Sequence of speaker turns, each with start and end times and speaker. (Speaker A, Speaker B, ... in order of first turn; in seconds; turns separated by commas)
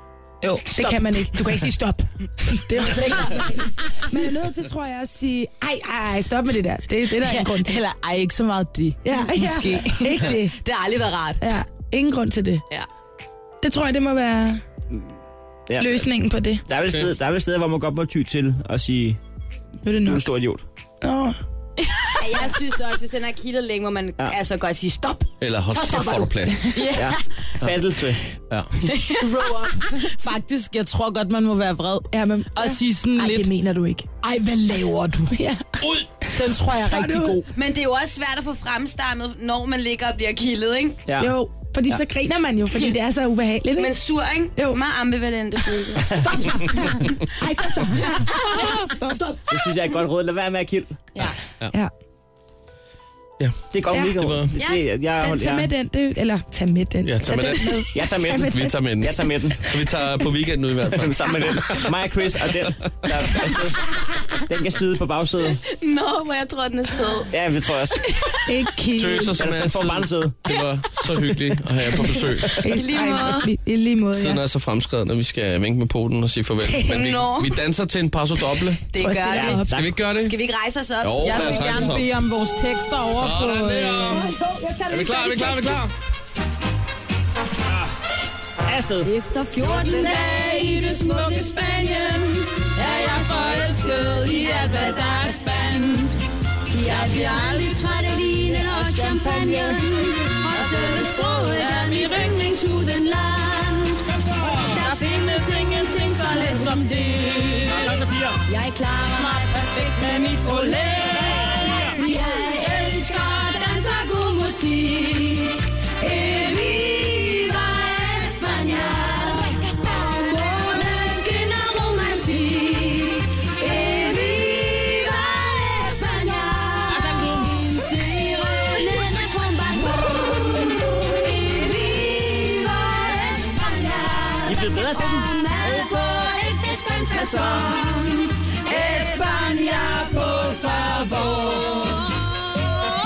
Speaker A: 0.4-1.2, Speaker B: 0.7-7.8, Speaker A: 7.1-10.2, Speaker B: 9.1-10.6, Speaker C: 10.7-11.4, Speaker B: 11.4-12.6, Speaker B: 13.6-14.6, Speaker D: 15.7-16.1, Speaker B: 15.8-16.6, Speaker D: 16.7-19.2, Speaker B: 19.9-20.3, Speaker D: 20.0-20.7, Speaker B: 21.0-21.4, Speaker C: 22.2-26.5, Speaker E: 25.4-26.7, Speaker A: 26.7-27.1, Speaker D: 26.9-28.2, Speaker A: 29.1-33.5, Speaker B: 32.1-34.1, Speaker A: 34.2-35.3, Speaker B: 35.3-35.8, Speaker A: 36.4-37.5, Speaker B: 36.9-37.4, Speaker C: 37.5-41.0, Speaker D: 41.1-41.3, Speaker B: 41.1-44.0, Speaker C: 43.8-46.6, Speaker B: 44.5-44.8, Speaker B: 46.3-48.3, Speaker D: 49.5-51.2, Speaker E: 53.4-54.5, Speaker D: 53.7-55.7, Speaker C: 54.5-54.8, Speaker B: 55.2-58.7, Speaker E: 57.0-61.9, Speaker D: 57.9-59.8, Speaker D: 60.9-63.8, Speaker D: 64.5-65.6, Speaker C: 65.7-67.3, Speaker D: 67.3-68.0, Speaker B: 68.5-69.4, Speaker E: 69.0-72.6, Speaker D: 69.4-70.4, Speaker B: 72.6-74.4, Speaker C: 72.7-73.5, Speaker E: 74.1-78.8, Speaker C: 76.9-77.5, Speaker C: 78.9-81.8, Speaker B: 79.0-79.8, Speaker D: 79.3-80.0, Speaker E: 79.7-80.4, Speaker E: 81.0-82.1, Speaker A: 81.3-84.3, Speaker E: 83.2-84.3, Speaker B: 84.1-85.8, Speaker E: 84.9-85.9, Speaker D: 88.6-89.1, Speaker A: 89.1-91.2, Speaker F: 89.1-96.1, Speaker A: 92.9-93.6, Speaker A: 95.2-96.0, Speaker F: 96.7-106.7, Speaker A: 96.9-97.5, Speaker A: 98.6-99.8, Speaker A: 101.5-102.2, Speaker A: 104.4-108.1, Speaker F: 108.5-142.0, Speaker A: 109.2-112.1, Speaker A: 126.9-127.5, Speaker D: 134.5-135.3